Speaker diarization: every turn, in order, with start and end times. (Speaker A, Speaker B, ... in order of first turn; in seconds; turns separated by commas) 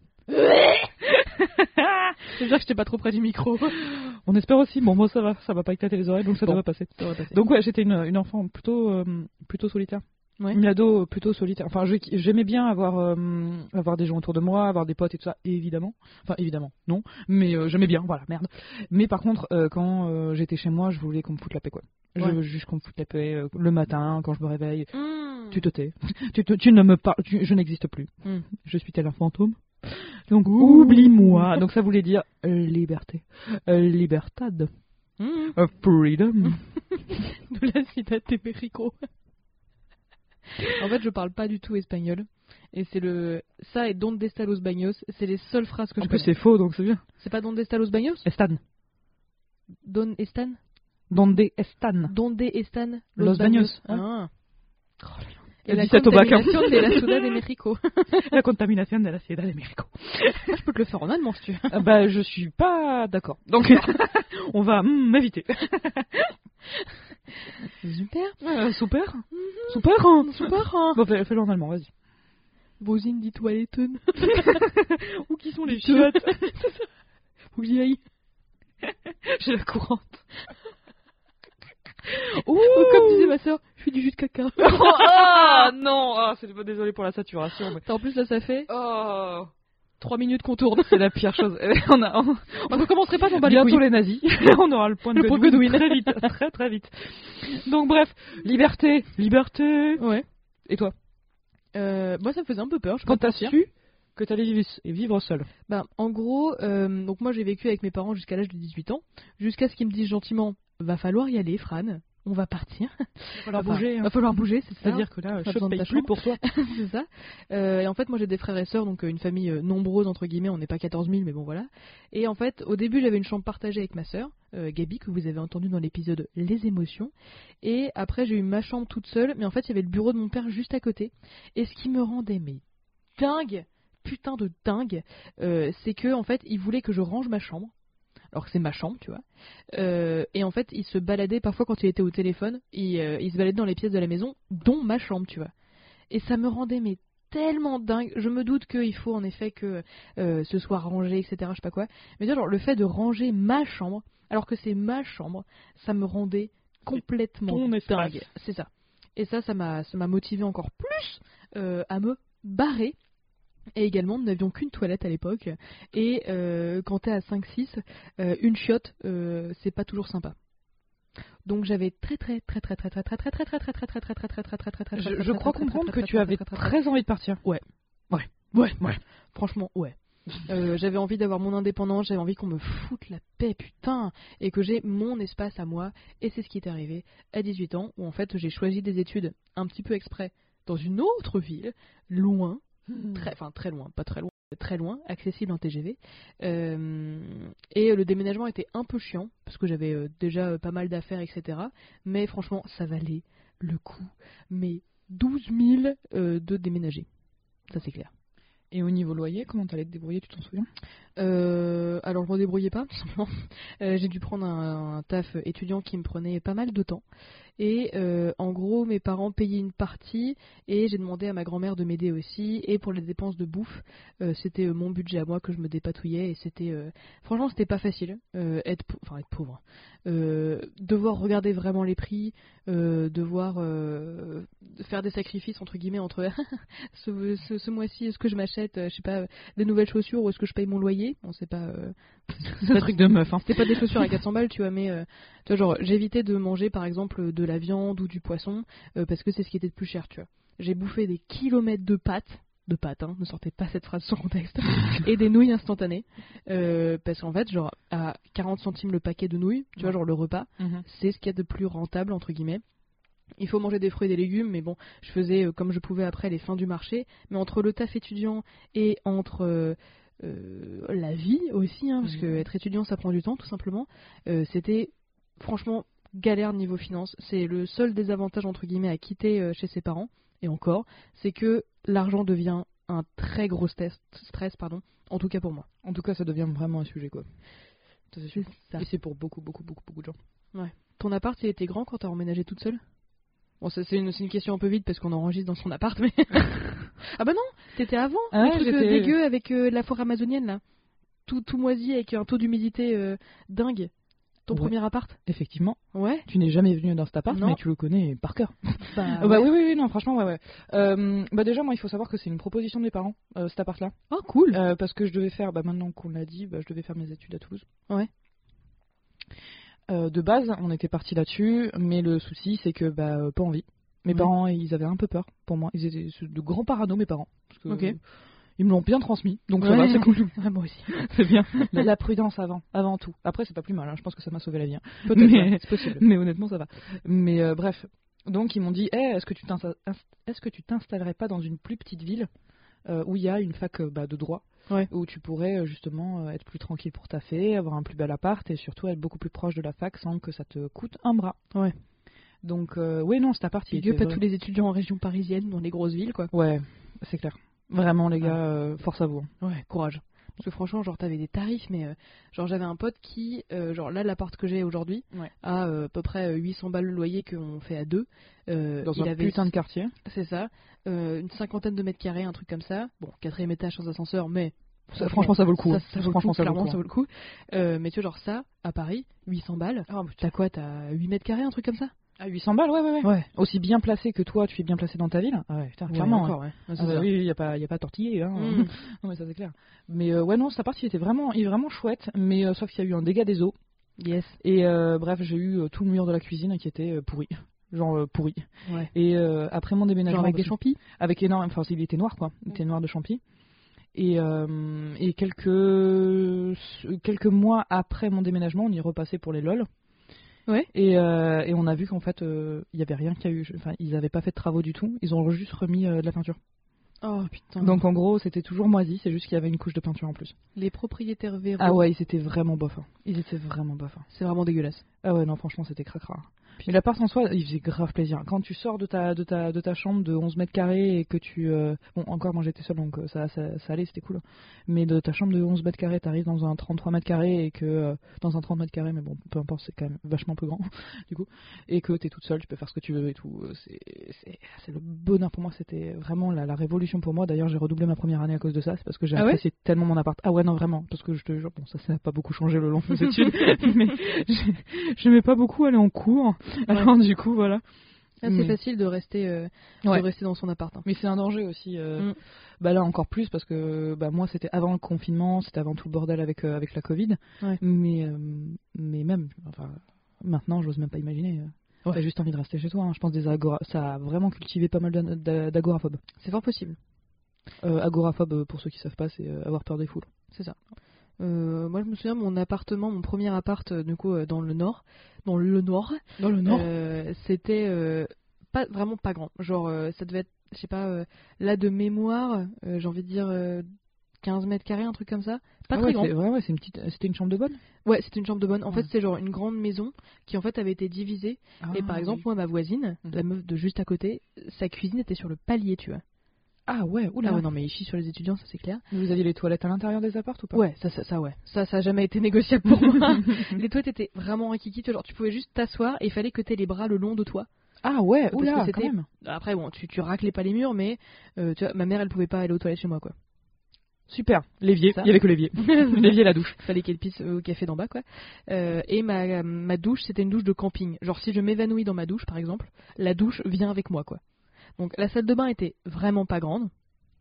Speaker A: 0.3-2.3, Speaker B: 2.3-3.8, Speaker A: 3.8-24.9, Speaker B: 6.4-7.4, Speaker B: 24.9-25.6, Speaker A: 25.5-34.7, Speaker B: 30.4-31.5, Speaker B: 35.2-35.6, Speaker A: 35.5-37.2, Speaker B: 37.1-39.1, Speaker B: 40.7-46.3, Speaker A: 46.0-47.0, Speaker B: 47.2-48.2, Speaker A: 48.2-48.6, Speaker B: 49.8-50.6, Speaker A: 51.1-52.1, Speaker B: 52.1-54.3, Speaker A: 53.2-54.0, Speaker A: 55.0-57.4, Speaker B: 55.6-58.3, Speaker A: 58.1-60.6, Speaker B: 60.5-61.8, Speaker A: 61.7-66.3, Speaker B: 67.7-68.4, Speaker A: 68.4-71.9, Speaker B: 69.3-71.0, Speaker B: 72.8-74.7, Speaker A: 74.2-76.5, Speaker B: 75.7-76.9, Speaker B: 77.5-78.0, Speaker A: 78.8-80.2, Speaker A: 82.1-83.4, Speaker B: 82.6-85.7, Speaker A: 84.6-87.8, Speaker B: 87.8-88.7, Speaker A: 88.7-89.5, Speaker B: 90.0-91.0, Speaker A: 90.8-100.0, Speaker B: 92.7-93.8, Speaker B: 95.1-96.3, Speaker B: 100.0-100.2, Speaker A: 100.7-100.9, Speaker B: 101.7-103.5, Speaker A: 103.0-105.5, Speaker B: 105.7-132.6, Speaker A: 113.4-116.4, Speaker B: 133.2-137.7, Speaker B: 138.3-145.5, Speaker B: 146.1-162.9, Speaker A: 156.9-158.3, Speaker B: 163.8-170.3, Speaker B: 171.4-176.7, Speaker A: 174.9-177.4, Speaker A: 178.1-179.0, Speaker B: 178.4-207.1, Speaker B: 207.7-208.1, Speaker A: 208.7-210.7, Speaker B: 211.2-217.0, Speaker B: 217.6-262.6, Speaker A: 242.6-244.1, Speaker A: 260.6-260.8, Speaker B: 263.4-285.7, Speaker A: 272.0-272.4, Speaker A: 285.8-287.3, Speaker A: 288.1-290.1, Speaker B: 288.3-288.9, Speaker B: 290.5-292.8, Speaker B: 293.6-300.6, Speaker A: 298.3-299.1, Speaker B: 301.2-303.9, Speaker B: 304.5-305.2, Speaker A: 305.2-313.9, Speaker B: 305.9-306.3, Speaker B: 307.3-307.6, Speaker B: 308.9-309.5, Speaker B: 314.1-314.6, Speaker A: 314.5-317.6, Speaker A: 319.9-328.0, Speaker B: 327.7-327.9, Speaker A: 328.6-330.3, Speaker B: 329.6-331.8, Speaker A: 330.9-342.3, Speaker B: 335.1-336.0, Speaker A: 342.9-351.4, Speaker A: 352.4-354.2, Speaker B: 353.7-356.3, Speaker A: 356.3-359.3, Speaker B: 359.4-369.5, Speaker A: 368.8-369.9, Speaker B: 370.0-381.9, Speaker A: 374.9-376.8, Speaker A: 379.9-380.2, Speaker A: 382.2-393.5, Speaker B: 383.0-383.3, Speaker B: 385.9-387.1, Speaker B: 388.3-388.7, Speaker B: 394.0-394.4, Speaker A: 394.4-403.2, Speaker B: 400.1-400.8, Speaker A: 403.9-409.7, Speaker A: 410.7-416.4, Speaker B: 417.0-417.8, Speaker A: 417.6-420.3, Speaker B: 420.5-421.8, Speaker A: 421.6-424.1, Speaker B: 424.1-424.8, Speaker A: 425.0-457.6, Speaker B: 458.2-460.8, Speaker A: 458.2-458.6, Speaker A: 460.8-476.0, Speaker B: 476.2-476.8, Speaker A: 477.6-480.1, Speaker B: 480.3-480.6, Speaker B: 481.2-493.7, Speaker A: 486.2-486.7, Speaker B: 494.2-496.1, Speaker A: 495.7-497.6, Speaker B: 497.8-506.0, Speaker A: 501.6-502.2, Speaker A: 506.7-507.4, Speaker B: 507.2-508.8, Speaker A: 508.9-510.6, Speaker B: 510.5-517.5, Speaker A: 512.9-513.5, Speaker A: 517.8-519.1, Speaker B: 518.3-523.1, Speaker A: 524.1-526.6, Speaker B: 524.9-534.2, Speaker B: 534.8-536.7